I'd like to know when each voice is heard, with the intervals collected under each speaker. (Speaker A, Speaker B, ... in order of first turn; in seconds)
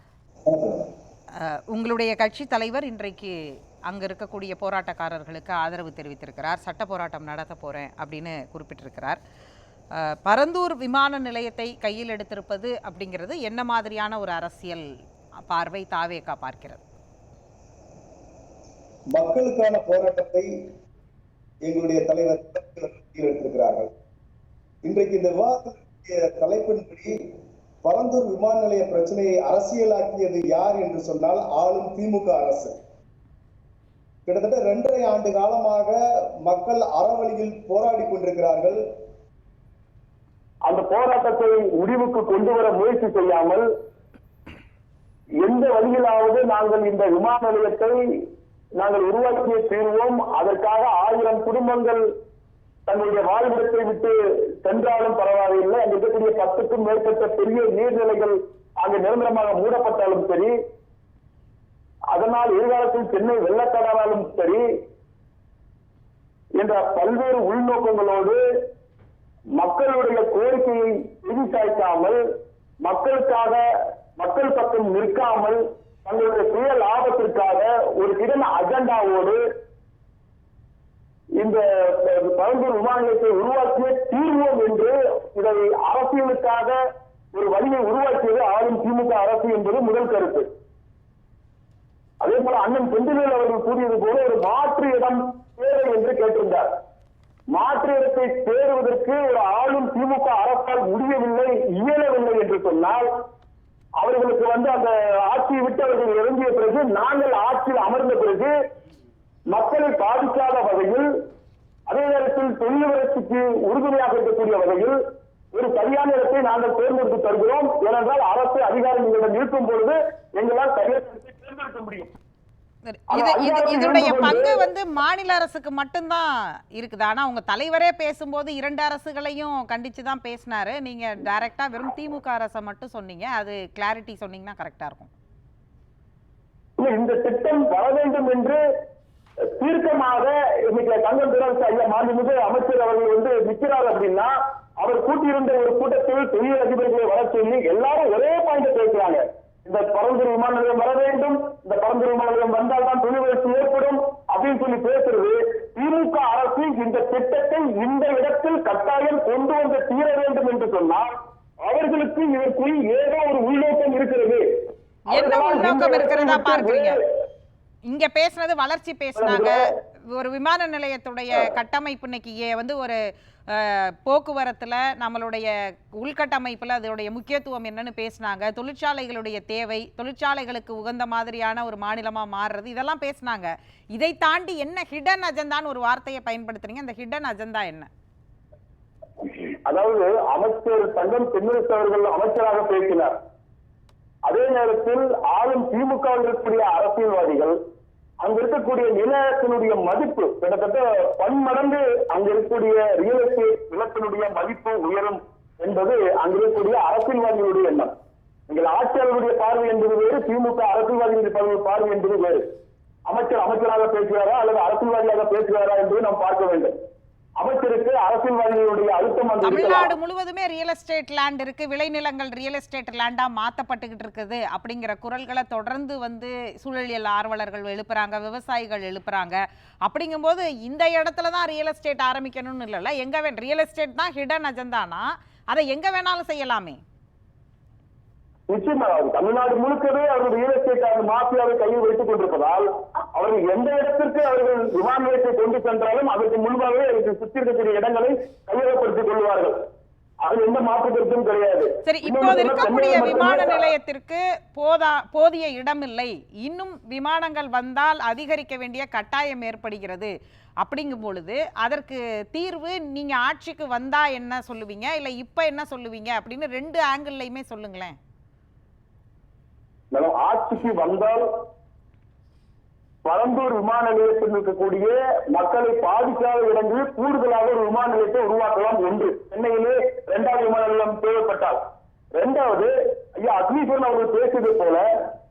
Speaker A: 0.5-0.9, 19.1-20.5, 21.6-23.9, 24.8-27.1, 27.8-32.7, 34.2-38.8
Speaker B: 1.4-3.3, 3.9-9.2, 10.0-14.9, 15.4-16.8, 123.1-135.1, 165.1-167.0, 167.9-173.0, 173.5-187.9, 219.4-236.8, 251.8-268.0
Speaker C: 40.6-43.6, 45.4-48.0, 48.8-52.0, 52.9-60.5, 62.1-64.6, 66.6-68.4, 69.6-72.2, 72.8-73.6, 74.2-79.4, 81.4-86.8, 87.3-90.5, 92.2-96.7, 97.5-103.1, 104.0-108.5, 109.5-111.1, 111.9-115.0, 115.5-122.1, 123.1-124.5, 136.8-138.6, 139.6-161.1, 161.6-164.4, 165.1-167.0, 169.2-169.7, 189.2-193.1, 194.2-197.6, 198.2-207.9, 208.5-212.5, 213.1-216.8, 217.4-219.9, 238.5-249.6, 250.2-253.7, 269.9-271.2, 273.0-281.6, 282.1-284.8